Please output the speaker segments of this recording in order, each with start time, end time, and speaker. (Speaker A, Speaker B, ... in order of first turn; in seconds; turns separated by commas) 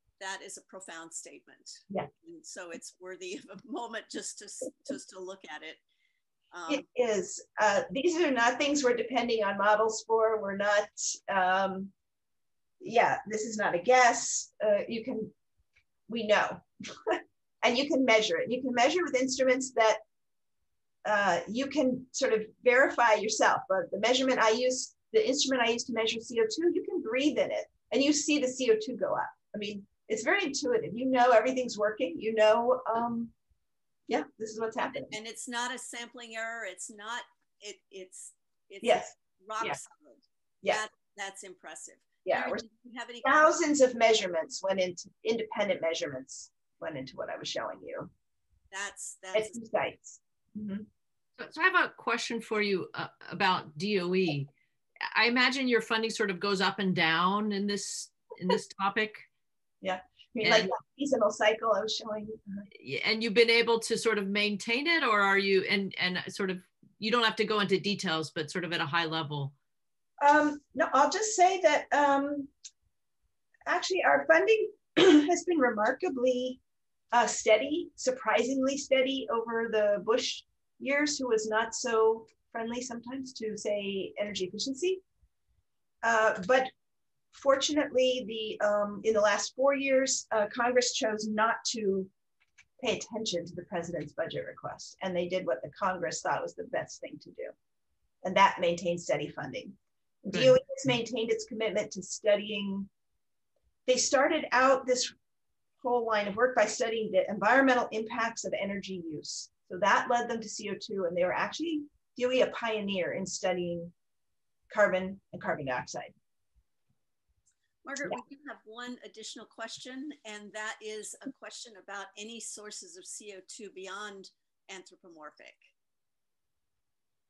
Speaker A: 0.2-5.8, Speaker A: 6.5-6.8, Speaker B: 6.7-11.9, Speaker B: 12.8-15.3, Speaker B: 16.1-20.0, Speaker B: 21.0-33.3, Speaker B: 34.1-35.1, Speaker A: 35.1-43.6, Speaker B: 38.8-39.8, Speaker B: 42.2-42.6, Speaker B: 43.2-48.1, Speaker A: 48.7-49.6, Speaker B: 49.3-50.9, Speaker C: 51.4-54.5, Speaker C: 55.1-59.2, Speaker B: 59.8-62.6, Speaker C: 60.4-60.7, Speaker C: 62.7-69.5, Speaker B: 70.2-72.5, Speaker B: 73.7-76.6, Speaker B: 77.1-85.0, Speaker B: 86.0-86.7, Speaker B: 87.3-92.1, Speaker B: 92.8-97.5, Speaker B: 98.2-102.9, Speaker B: 103.8-105.1, Speaker B: 105.8-113.9, Speaker B: 114.7-116.1, Speaker A: 117.8-125.7